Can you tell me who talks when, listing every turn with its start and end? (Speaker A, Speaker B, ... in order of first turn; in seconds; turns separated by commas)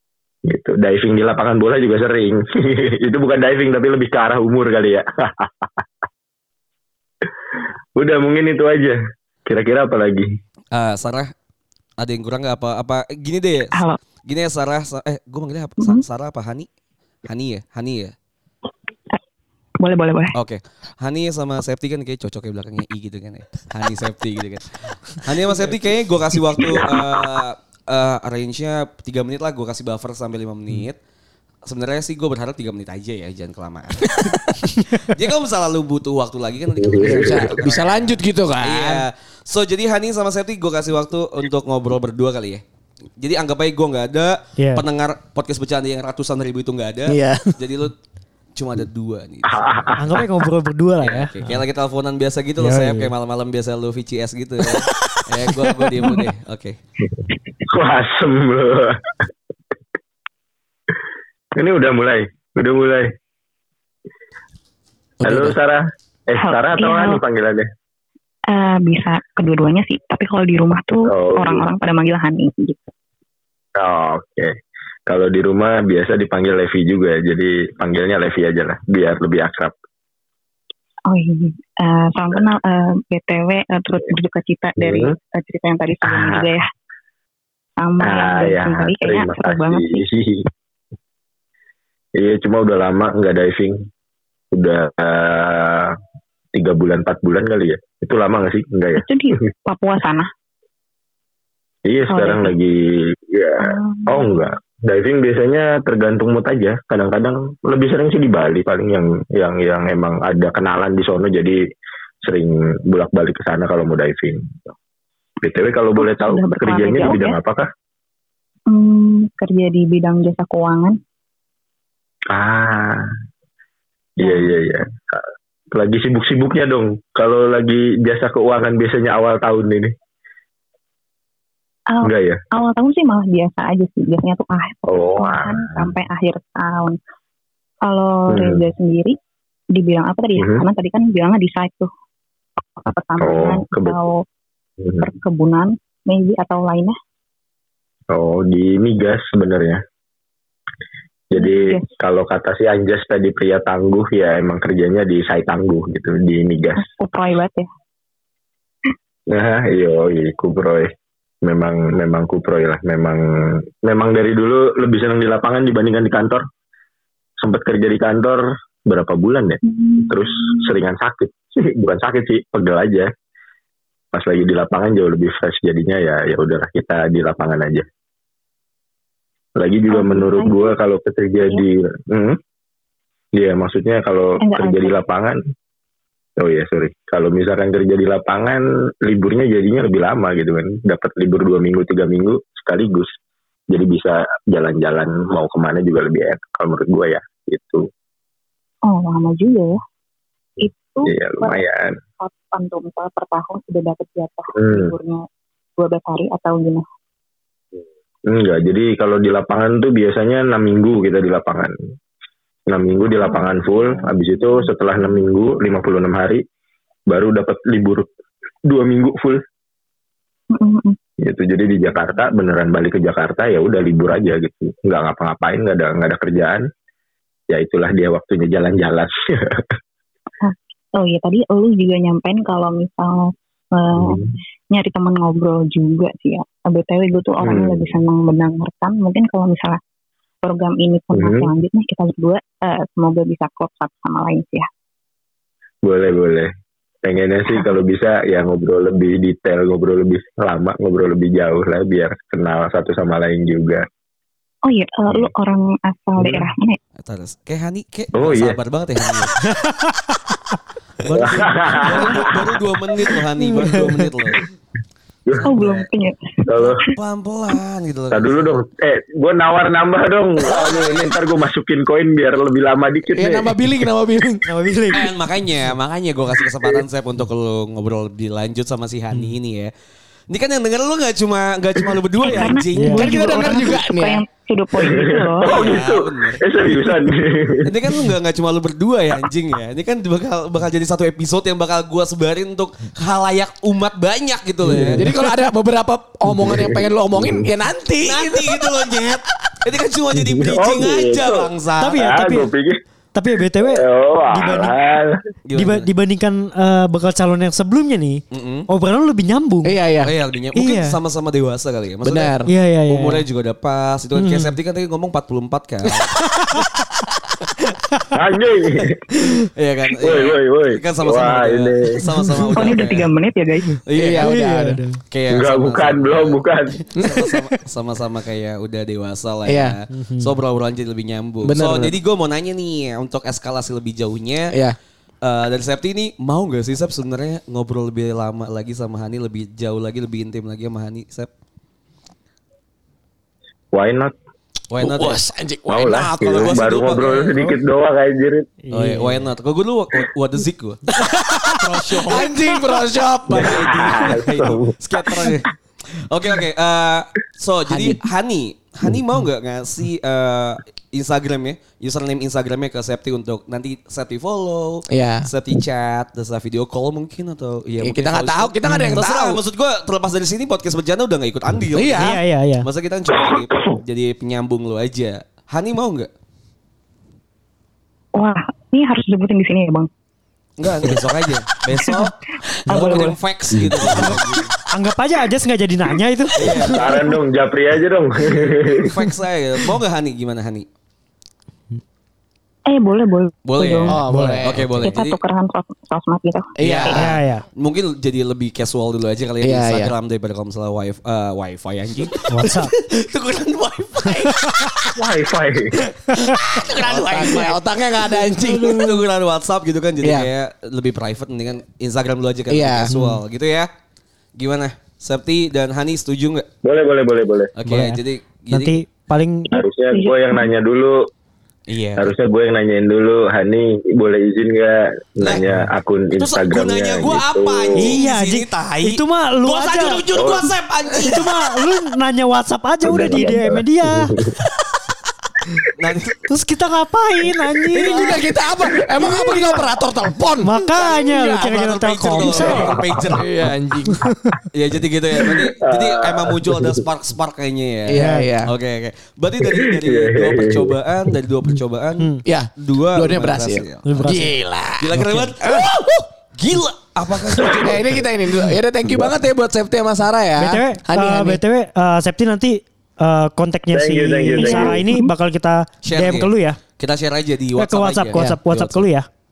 Speaker A: 0.5-5.5, Speaker A: 8.0-10.3, Speaker B: 10.7-11.3, Speaker B: 12.0-16.7, Speaker C: 13.7-14.0, Speaker C: 15.8-16.0, Speaker B: 17.2-18.1, Speaker C: 19.8-20.3, Speaker B: 20.3-31.0, Speaker B: 31.6-42.6, Speaker A: 36.8-37.5, Speaker D: 37.0-39.0, Speaker B: 43.2-47.9, Speaker E: 44.6-44.8, Speaker D: 47.1-47.5, Speaker B: 48.5-50.2, Speaker A: 49.5-50.2, Speaker E: 50.0-51.6, Speaker B: 51.0-56.8, Speaker E: 52.6-53.1, Speaker A: 57.7-59.0, Speaker A: 61.5-63.1, Speaker D: 65.2-65.6, Speaker A: 65.2-67.7, Speaker C: 66.4-67.2, Speaker C: 68.5-72.9, Speaker A: 71.1-71.6, Speaker A: 73.8-74.5, Speaker A: 75.1-79.7, Speaker C: 81.1-86.7, Speaker A: 84.8-85.1, Speaker A: 86.0-86.5, Speaker C: 87.8-90.0, Speaker A: 88.0-90.5, Speaker A: 92.2-93.9, Speaker A: 94.5-96.0, Speaker A: 96.5-99.0, Speaker C: 98.9-100.3, Speaker A: 101.8-111.6, Speaker C: 102.1-102.5, Speaker C: 103.6-104.5, Speaker A: 112.2-114.7, Speaker A: 115.4-117.7, Speaker C: 116.0-117.4, Speaker C: 118.7-121.0, Speaker A: 122.3-123.1, Speaker A: 124.2-129.9, Speaker C: 124.2-124.5, Speaker C: 131.9-137.0, Speaker A: 132.0-132.4, Speaker A: 134.8-135.9, Speaker C: 137.8-139.2, Speaker A: 138.3-138.6, Speaker C: 139.7-141.9, Speaker A: 140.4-140.6, Speaker C: 142.8-144.2, Speaker A: 143.2-144.0, Speaker C: 145.0-146.9, Speaker A: 148.1-149.8, Speaker A: 151.3-156.8, Speaker C: 151.3-151.9, Speaker C: 156.7-157.7, Speaker A: 159.3-160.9, Speaker A: 161.4-166.4, Speaker A: 167.4-173.1, Speaker C: 169.6-170.8, Speaker A: 174.1-177.8, Speaker A: 179.6-182.4, Speaker C: 179.9-180.8, Speaker A: 183.3-185.4, Speaker C: 184.4-185.0, Speaker A: 186.4-193.1, Speaker A: 193.7-197.8, Speaker C: 198.8-199.8, Speaker C: 200.6-201.6, Speaker A: 201.1-201.9, Speaker C: 202.2-205.2, Speaker A: 204.6-204.9, Speaker C: 205.8-206.8, Speaker A: 208.3-211.7, Speaker A: 212.7-216.4, Speaker C: 213.2-215.3, Speaker A: 217.1-218.1, Speaker A: 218.7-219.4, Speaker C: 220.5-221.0, Speaker A: 221.2-226.6, Speaker A: 227.5-229.6, Speaker C: 230.4-239.8, Speaker A: 237.4-237.9, Speaker C: 240.4-244.7, Speaker A: 241.1-241.5, Speaker A: 245.8-246.5, Speaker A: 247.0-253.8, Speaker C: 254.6-256.8, Speaker A: 256.2-256.5, Speaker B: 257.0-259.4, Speaker A: 258.1-258.6, Speaker E: 259.4-260.1, Speaker A: 261.0-262.6, Speaker B: 261.1-264.4, Speaker C: 263.4-263.8, Speaker C: 265.4-266.9, Speaker B: 265.4-265.9, Speaker A: 266.5-266.8, Speaker B: 266.6-268.6, Speaker A: 268.1-273.5, Speaker B: 270.4-271.1, Speaker D: 273.1-274.5, Speaker E: 274.4-275.1, Speaker B: 274.9-279.7, Speaker B: 280.3-283.5, Speaker C: 282.1-285.6, Speaker E: 282.7-283.1, Speaker D: 283.0-284.2, Speaker A: 284.8-287.8, Speaker B: 285.4-286.4, Speaker B: 287.6-295.1, Speaker A: 294.7-295.0, Speaker D: 294.8-298.6, Speaker A: 296.3-297.4, Speaker B: 298.0-302.0, Speaker A: 300.3-302.8, Speaker E: 301.8-302.5, Speaker E: 303.1-304.7, Speaker A: 303.6-305.2, Speaker B: 305.4-305.9, Speaker E: 305.5-309.7, Speaker B: 308.3-308.7, Speaker D: 309.6-310.1, Speaker B: 310.0-316.1, Speaker E: 310.6-311.0, Speaker D: 312.0-312.5, Speaker E: 312.5-313.2, Speaker E: 314.2-314.5, Speaker A: 318.1-319.0, Speaker B: 319.5-323.1, Speaker A: 320.0-322.0, Speaker E: 322.0-322.5, Speaker C: 322.5-323.8, Speaker B: 323.9-324.3, Speaker D: 323.9-324.8, Speaker E: 324.2-325.0, Speaker B: 325.1-326.4, Speaker A: 325.3-326.8, Speaker D: 326.9-327.3, Speaker B: 326.9-334.5, Speaker D: 329.4-329.8, Speaker E: 329.9-330.3, Speaker D: 331.4-332.0, Speaker D: 334.5-334.8, Speaker B: 335.2-341.3, Speaker A: 343.7-344.1, Speaker B: 344.7-345.2, Speaker D: 344.8-346.6, Speaker A: 345.7-348.5, Speaker B: 346.2-347.6, Speaker E: 348.6-349.2, Speaker B: 348.7-350.8, Speaker B: 351.6-352.6, Speaker D: 352.0-354.1, Speaker B: 353.3-376.1, Speaker A: 353.3-354.7, Speaker D: 357.7-358.0, Speaker D: 364.9-365.3, Speaker D: 367.8-369.4, Speaker E: 368.7-369.0, Speaker D: 371.7-372.2, Speaker E: 372.0-372.6, Speaker C: 378.1-379.9, Speaker B: 380.6-382.1, Speaker C: 381.8-382.1, Speaker E: 382.7-383.1, Speaker B: 382.7-384.5, Speaker A: 383.6-384.1, Speaker E: 383.9-384.1, Speaker E: 384.7-386.8, Speaker B: 386.4-386.8, Speaker A: 386.7-388.9, Speaker C: 386.9-387.2, Speaker B: 388.8-390.6, Speaker C: 392.7-394.0, Speaker B: 393.5-395.2, Speaker D: 393.9-394.9, Speaker E: 394.0-394.4, Speaker C: 394.8-397.0, Speaker D: 396.6-397.1, Speaker B: 396.6-404.9, Speaker E: 396.9-397.4, Speaker D: 399.4-399.9, Speaker E: 402.3-402.7, Speaker A: 404.9-405.7, Speaker B: 406.5-408.0, Speaker D: 406.5-408.9, Speaker E: 408.4-409.0, Speaker B: 408.6-413.7, Speaker D: 410.0-410.3, Speaker D: 412.5-413.0, Speaker B: 414.4-416.4, Speaker A: 416.6-417.5, Speaker B: 417.6-418.8, Speaker E: 417.6-419.5, Speaker A: 419.5-421.1, Speaker C: 419.5-420.5, Speaker B: 421.7-422.1, Speaker A: 422.0-428.0, Speaker B: 425.2-425.6, Speaker B: 426.2-431.3, Speaker E: 427.8-430.1, Speaker A: 430.1-430.5, Speaker E: 431.0-434.1, Speaker A: 432.8-434.2, Speaker B: 435.8-436.2, Speaker E: 436.3-438.1, Speaker D: 437.7-441.5, Speaker B: 437.8-438.1, Speaker E: 439.0-439.6, Speaker E: 440.4-442.8, Speaker B: 440.8-443.5, Speaker D: 442.2-444.0, Speaker B: 444.5-454.1, Speaker A: 445.6-446.8, Speaker D: 447.9-448.5, Speaker E: 447.9-448.3, Speaker A: 449.5-450.8, Speaker D: 452.2-455.8, Speaker E: 453.9-454.4, Speaker B: 454.8-457.9, Speaker E: 454.9-455.3, Speaker D: 457.3-461.4, Speaker E: 460.4-466.6, Speaker A: 463.7-464.8, Speaker C: 464.3-465.1, Speaker B: 465.8-468.8, Speaker E: 467.6-469.1